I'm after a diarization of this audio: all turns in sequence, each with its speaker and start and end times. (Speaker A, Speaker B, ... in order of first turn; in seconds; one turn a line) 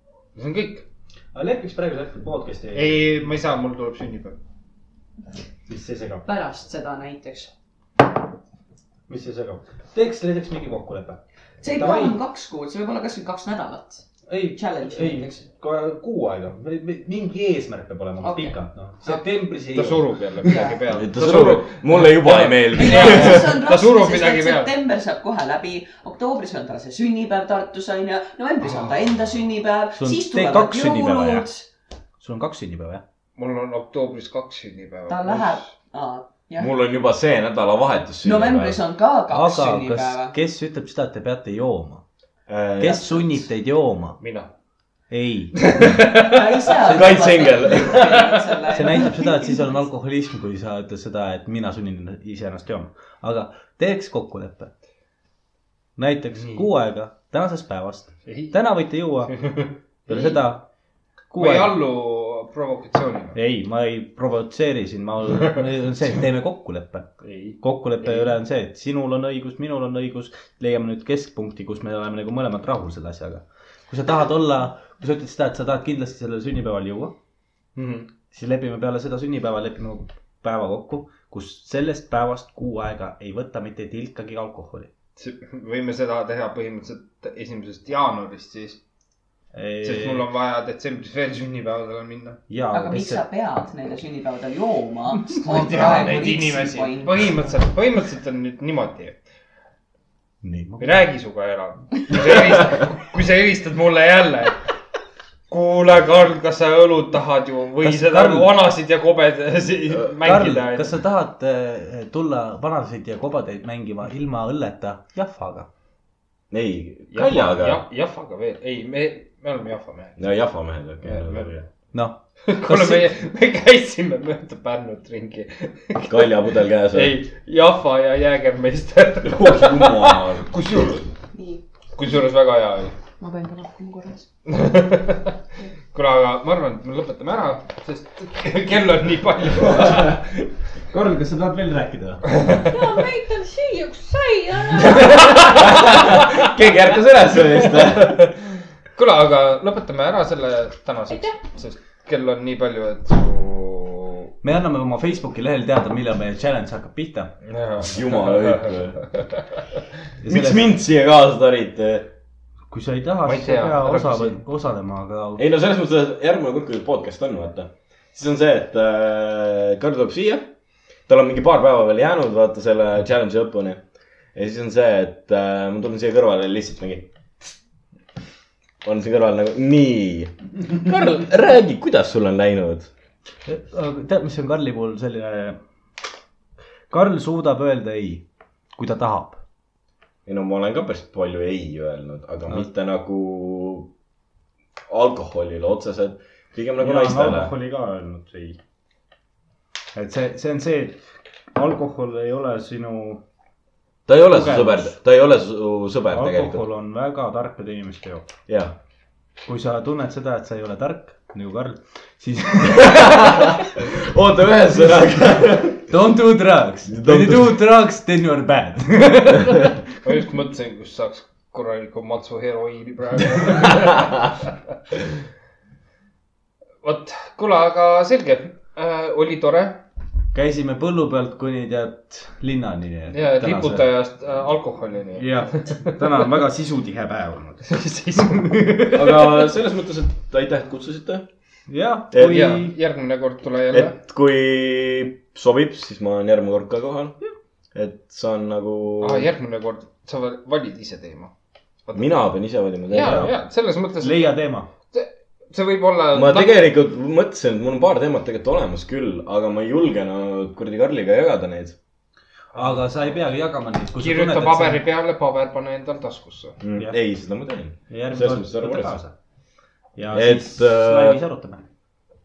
Speaker A: 0.3-0.8
Speaker B: 1.3-3.1
Speaker A: 2.7-4.4
Speaker B: 5.7-6.2
Speaker C: 6.2-7.5
Speaker B: 9.1-12.2
Speaker C: 11.6-15.4
Speaker B: 14.3-20.3
Speaker C: 18.2-19.2
Speaker A: 19.7-24.7
Speaker C: 20.4-20.8
Speaker D: 20.9-23.5
Speaker C: 22.7-31.7
Speaker A: 28.6-28.9
Speaker B: 29.9-31.4
Speaker B: 32.2-33.0
Speaker A: 33.4-35.7
Speaker C: 35.1-36.7
Speaker D: 36.6-38.8
Speaker C: 38.2-40.3
Speaker B: 39.3-42.0
Speaker D: 42.5-43.3
Speaker B: 42.8-44.2
Speaker A: 44.2-44.5
Speaker B: 45.1-45.8
Speaker A: 45.7-46.3
Speaker C: 46.1-49.8
Speaker D: 46.8-48.2
Speaker B: 46.9-47.3
Speaker B: 48.7-54.7
Speaker B: 56.0-59.5
Speaker A: 58.2-58.5
Speaker A: 59.3-60.3
Speaker B: 60.1-60.7
Speaker B: 61.3-61.8
Speaker A: 61.3-63.4
Speaker B: 63.3-77.1
Speaker A: 67.2-68.3
Speaker A: 77.8-78.1
Speaker B: 78.2-84.9
Speaker A: 85.2-88.8
Speaker B: 89.5-90.3
Speaker A: 89.8-92.4
Speaker B: 92.5-93.2
Speaker C: 92.7-97.3
Speaker A: 95.4-99.2
Speaker B: 100.4-101.1
Speaker A: 100.8-104.6
Speaker A: 105.5-110.9
Speaker B: 107.8-108.5
Speaker B: 110.2-115.7
Speaker D: 116.5-117.8
Speaker A: 117.1-120.2
Speaker D: 120.2-121.7
Speaker A: 121.0-121.5
Speaker B: 121.9-123.1
Speaker A: 122.4-131.1
Speaker D: 126.1-127.2
Speaker D: 129.2-130.5
Speaker C: 131.3-131.6
Speaker A: 131.9-132.9
Speaker C: 133.2-134.3
Speaker A: 134.5-135.4
Speaker A: 135.9-140.2
Speaker D: 139.7-140.3
Speaker B: 140.9-142.2
Speaker A: 142.3-142.8
Speaker E: 142.7-145.9
Speaker A: 144.8-146.5
Speaker D: 145.4-148.3
Speaker A: 147.6-148.4
Speaker A: 148.9-154.3
Speaker B: 154.4-157.3
Speaker A: 157.4-159.4
Speaker D: 157.8-159.1
Speaker B: 160.2-160.7
Speaker D: 160.2-162.1
Speaker B: 162.7-165.4
Speaker A: 163.2-164.4
Speaker D: 165.4-170.5
Speaker D: 171.1-173.8
Speaker D: 174.3-177.5
Speaker D: 178.8-182.9
Speaker B: 183.4-185.6
Speaker B: 186.9-188.2
Speaker B: 188.8-189.4
Speaker D: 190.2-193.9
Speaker D: 194.9-197.5
Speaker B: 196.8-198.6
Speaker B: 199.9-203.2
Speaker D: 204.1-206.6
Speaker B: 204.2-204.9
Speaker B: 206.1-208.3
Speaker D: 208.5-208.7
Speaker B: 209.4-213.5
Speaker D: 212.7-215.9
Speaker B: 215.7-219.8
Speaker D: 216.9-217.6
Speaker A: 220.0-224.2
Speaker A: 226.8-229.8
Speaker B: 230.3-233.9
Speaker A: 233.1-236.0
Speaker B: 235.2-239.5
Speaker A: 237.7-238.8
Speaker D: 238.9-241.3
Speaker B: 241.7-242.7
Speaker D: 242.1-242.6
Speaker A: 242.2-243.9
Speaker D: 243.7-247.2
Speaker D: 247.7-249.3
Speaker A: 249.0-251.3
Speaker D: 251.9-253.3
Speaker A: 252.9-254.3
Speaker B: 252.9-253.4
Speaker B: 253.9-254.7
Speaker A: 254.9-256.7
Speaker D: 256.1-261.8
Speaker B: 262.5-264.8
Speaker A: 262.5-262.8
Speaker A: 264.0-266.6
Speaker D: 266.6-269.0
Speaker B: 267.9-269.1
Speaker B: 270.0-271.7
Speaker D: 270.1-271.2